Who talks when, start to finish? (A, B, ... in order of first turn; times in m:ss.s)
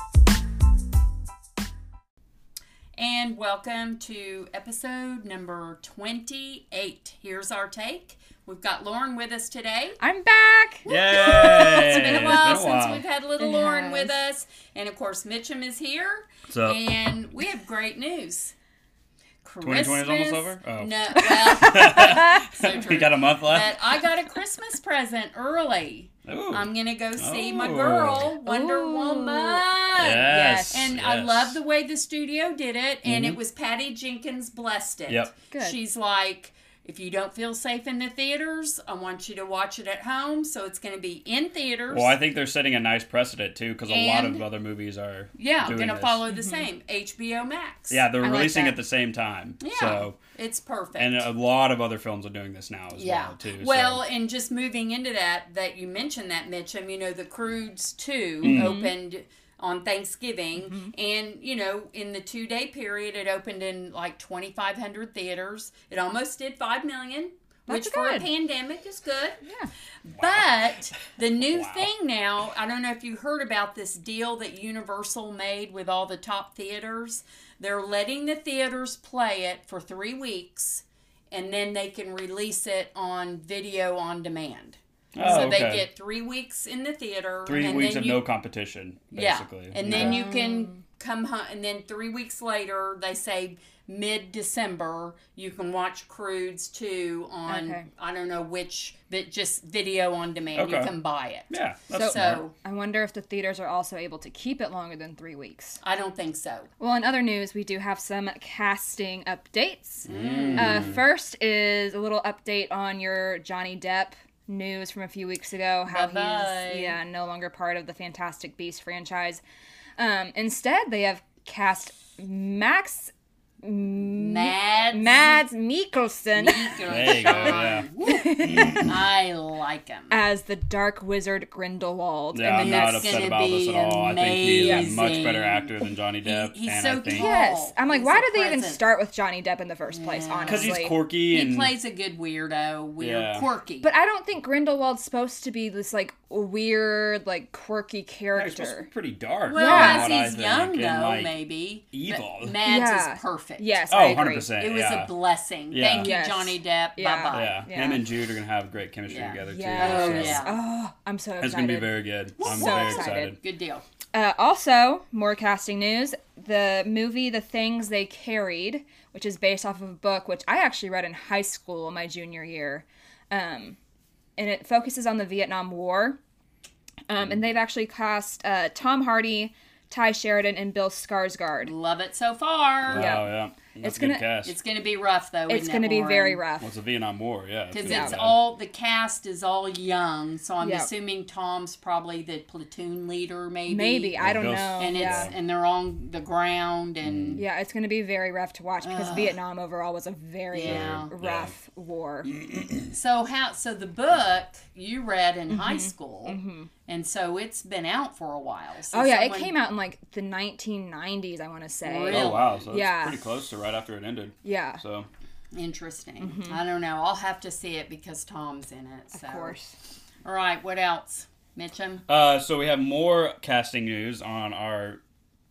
0:03.0-0:10.0 A
0:10.0-0:12.8 B
0:10.8-0:18.5 A
0:10.9-0:13.0 C
0:13.4-0:14.1 B
0:16.5-0:16.8 C
0:19.4-0:42.2 A
0:19.6-0:23.8 C
0:21.5-0:22.5 B
0:26.3-0:28.4 C
0:28.5-0:30.9 B
0:30.0-0:31.6 C
0:33.0-0:33.4 C
0:35.1-0:35.3 C
0:35.5-0:35.8 B
0:41.9-0:46.2 C
0:43.9-0:44.4 A
0:45.4-0:48.8 A
0:46.3-0:46.7 B
0:47.9-0:50.2 C
0:49.6-0:51.3 A
0:51.0-0:54.0 C
0:53.0-1:09.4 A
0:58.4-0:58.8 C
0:58.4-0:58.9 B
1:00.6-1:00.9 B
1:07.7-1:08.3 B
1:09.4-1:09.7 B
1:10.0-1:28.2 A
1:10.2-1:11.9 C
1:25.2-1:25.9 C
1:27.5-1:30.2 C
1:29.1-1:42.5 A
1:29.8-1:30.8 B
1:37.5-1:37.8 B
1:40.6-1:40.9 C
1:41.5-1:42.4 C
1:42.0-1:45.8 B
1:45.8-1:46.7 A
1:46.8-1:59.4 B
1:50.0-1:51.0 C
1:50.1-1:51.0 A
1:55.9-1:57.0 A
2:00.0-2:08.9 B
2:04.1-2:05.4 A
2:06.4-2:08.3 A
2:06.9-2:09.0 C
2:08.8-2:10.2 A
2:10.1-2:13.3 B
2:12.3-2:17.4 C
2:12.5-2:18.8 A
2:14.4-2:15.0 B
2:17.1-2:20.9 B
2:19.9-2:20.7 A
2:20.5-2:21.7 C
2:21.3-2:23.9 A
2:23.0-2:23.5 C
2:23.8-2:28.9 B
2:28.4-2:31.4 C
2:29.5-2:33.8 A
2:29.5-2:30.1 B
2:31.9-2:32.6 C
2:32.6-2:34.5 B
2:33.9-2:35.1 C
2:34.6-2:37.7 A
2:35.7-2:36.1 C
2:36.0-2:38.1 B
2:37.3-2:40.5 C
2:39.1-2:40.6 A
2:39.5-2:43.4 B
2:41.4-2:43.4 C
2:42.4-2:43.8 A
2:44.1-2:53.8 B
2:54.4-2:56.2 B
2:57.1-3:01.7 B
3:01.6-3:03.2 A
3:02.9-3:04.6 C
3:02.9-3:04.2 B
3:04.4-3:06.4 A
3:05.5-3:06.7 B
3:06.6-3:08.4 C
3:07.7-3:14.2 A
3:07.8-3:08.2 B
3:10.6-3:10.9 B
3:13.7-3:15.3 B
3:14.2-3:15.3 C
3:14.8-3:17.4 A
3:17.0-3:17.4 C
3:17.4-3:22.3 B
3:18.8-3:19.4 A
3:20.5-3:21.1 A
3:20.6-3:21.6 C
3:22.2-3:22.9 C
3:22.9-3:29.5 A
3:25.5-3:26.7 B
3:28.9-3:33.2 B
3:31.8-3:32.6 A
3:32.1-3:35.1 C
3:34.4-3:34.8 B
3:35.5-3:39.6 A
3:36.2-3:36.6 B
3:39.1-3:39.7 B
3:40.2-3:42.0 A
3:42.1-3:45.0 C